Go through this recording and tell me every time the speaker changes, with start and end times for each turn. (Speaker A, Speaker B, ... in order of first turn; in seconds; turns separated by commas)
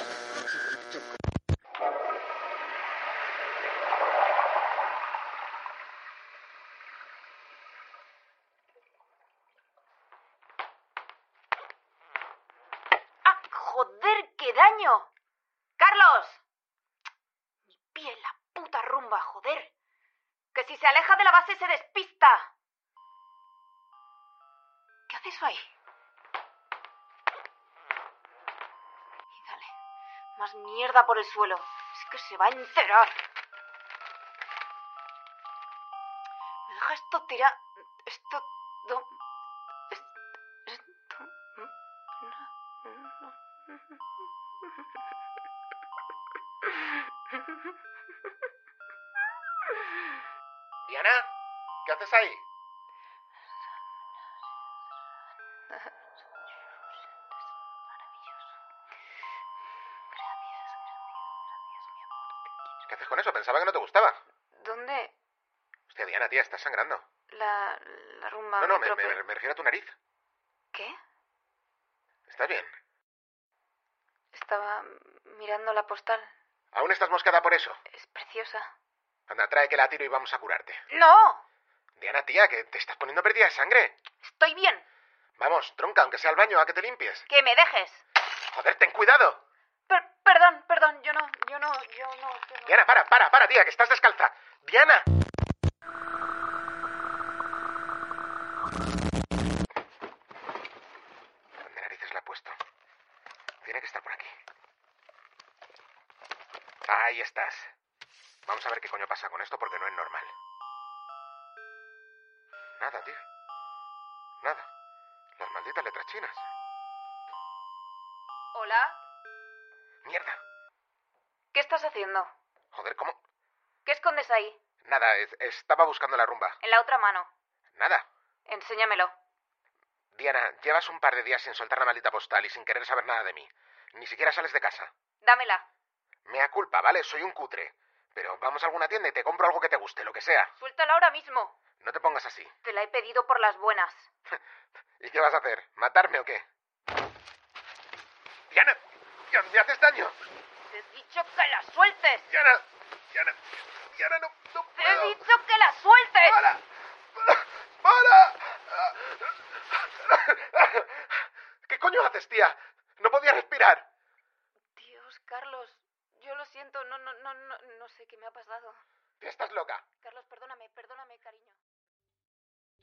Speaker A: 13.2-15.1, Speaker A: 15.8-16.4, Speaker A: 17.7-19.7, Speaker A: 20.5-22.5, Speaker A: 25.1-25.7, Speaker A: 29.3-29.7, Speaker A: 30.4-33.2, Speaker A: 36.7-39.1, Speaker A: 40.7-41.7, Speaker A: 42.2-43.3, Speaker B: 50.9-51.3, Speaker B: 51.9-52.4, Speaker A: 60.2-60.8, Speaker B: 62.9-64.2, Speaker A: 64.5-65.1, Speaker B: 65.9-67.0, Speaker A: 67.3-69.2, Speaker B: 68.6-70.0, Speaker A: 70.7-71.0, Speaker B: 72.3-72.7, Speaker A: 74.3-76.3, Speaker B: 76.7-77.8, Speaker A: 77.9-78.7, Speaker B: 79.3-80.8, Speaker A: 80.9-81.4, Speaker B: 82.0-84.0, Speaker A: 84.2-84.8, Speaker B: 85.4-87.2, Speaker A: 87.3-88.0, Speaker B: 88.5-89.4, Speaker A: 89.9-92.8, Speaker B: 92.7-95.1, Speaker B: 101.6-102.6, Speaker B: 103.6-104.3, Speaker B: 106.9-107.7, Speaker B: 108.5-110.3, Speaker B: 112.8-113.2, Speaker B: 114.4-114.7, Speaker B: 115.4-116.5, Speaker A: 118.5-119.0, Speaker B: 120.0-120.4, Speaker A: 121.5-122.3, Speaker B: 122.7-123.2, Speaker A: 123.8-124.6, Speaker B: 124.8-126.6, Speaker A: 126.6-127.3, Speaker B: 127.8-128.1, Speaker A: 128.5-129.1, Speaker B: 130.2-134.9, Speaker A: 135.2-135.7, Speaker B: 136.3-140.5, Speaker A: 140.6-141.6, Speaker B: 141.8-142.5, Speaker A: 142.6-144.1, Speaker B: 145.0-146.5, Speaker B: 148.5-150.2, Speaker A: 150.7-152.3, Speaker B: 152.3-153.4, Speaker B: 153.9-155.2, Speaker A: 154.8-156.4, Speaker B: 156.2-156.6, Speaker B: 157.2-159.2, Speaker B: 160.0-161.0, Speaker B: 161.7-163.9, Speaker A: 164.8-168.8, Speaker B: 169.2-169.8, Speaker A: 170.0-171.6